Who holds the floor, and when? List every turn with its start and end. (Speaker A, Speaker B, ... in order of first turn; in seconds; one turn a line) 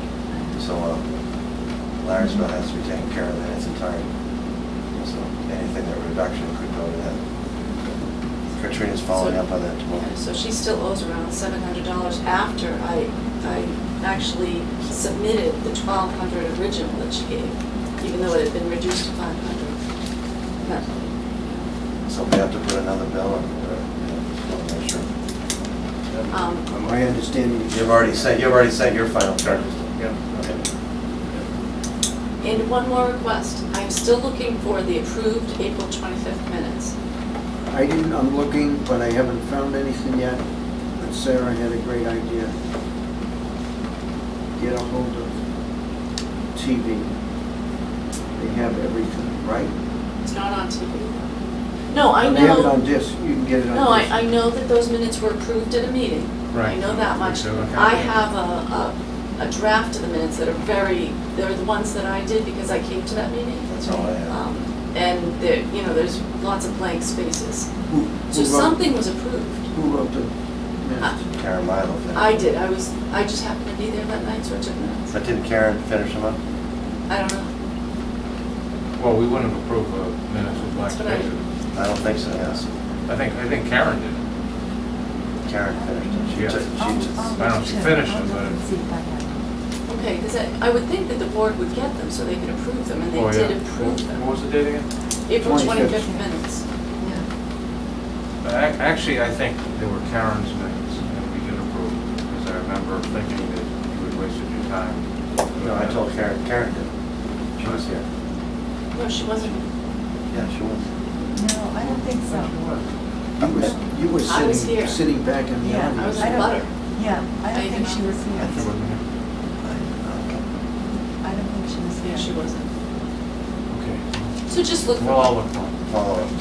Speaker A: 0.5-1.1
Speaker A: 2.0-4.1
Speaker A: 4.9-7.2
Speaker A: 8.6-10.1
Speaker B: 9.1-19.8
Speaker B: 20.6-21.6
Speaker A: 22.1-25.1
Speaker C: 26.1-26.9
Speaker B: 26.3-26.8
Speaker D: 26.9-27.8
Speaker A: 27.7-29.7
Speaker C: 29.7-30.5
Speaker A: 30.4-30.6
Speaker B: 32.4-36.9
Speaker D: 37.7-40.4
Speaker D: 41.0-42.5
Speaker D: 44.6-45.4
Speaker D: 46.5-47.1
Speaker D: 48.4-49.7
Speaker B: 50.2-51.3
Speaker B: 51.9-52.8
Speaker D: 52.2-54.4
Speaker B: 53.7-63.7
Speaker C: 56.5-58.2
Speaker A: 63.7-64.4
Speaker B: 64.3-67.7
Speaker D: 67.9-68.9
Speaker B: 68.3-69.7
Speaker D: 69.7-71.2
Speaker A: 71.3-72.5
Speaker B: 72.1-75.1
Speaker A: 75.1-76.4
Speaker B: 77.1-77.5
Speaker C: 79.0-81.4
Speaker B: 80.6-81.3
Speaker A: 81.7-82.7
Speaker C: 83.1-84.2
Speaker A: 85.4-87.4
Speaker E: 85.7-89.5
Speaker C: 86.3-86.7
Speaker C: 87.3-88.6
Speaker B: 89.9-94.2
Speaker C: 93.1-94.9
Speaker B: 95.3-97.2
Speaker D: 95.4-96.0
Speaker E: 96.0-96.3
Speaker C: 98.4-106.0
Speaker A: 105.6-106.9
Speaker A: 107.6-108.0
Speaker C: 107.6-107.9
Speaker B: 108.9-109.7
Speaker A: 110.3-110.8
Speaker E: 111.3-112.6
Speaker C: 111.8-112.8
Speaker D: 113.4-116.5
Speaker B: 114.2-115.0
Speaker E: 115.6-118.7
Speaker B: 115.9-116.7
Speaker B: 117.5-118.2
Speaker C: 118.3-119.0
Speaker A: 119.6-120.5
Speaker E: 121.2-122.3
Speaker B: 122.0-122.7
Speaker C: 123.7-124.4
Speaker B: 124.5-125.3
Speaker C: 125.0-125.8
Speaker A: 125.8-126.3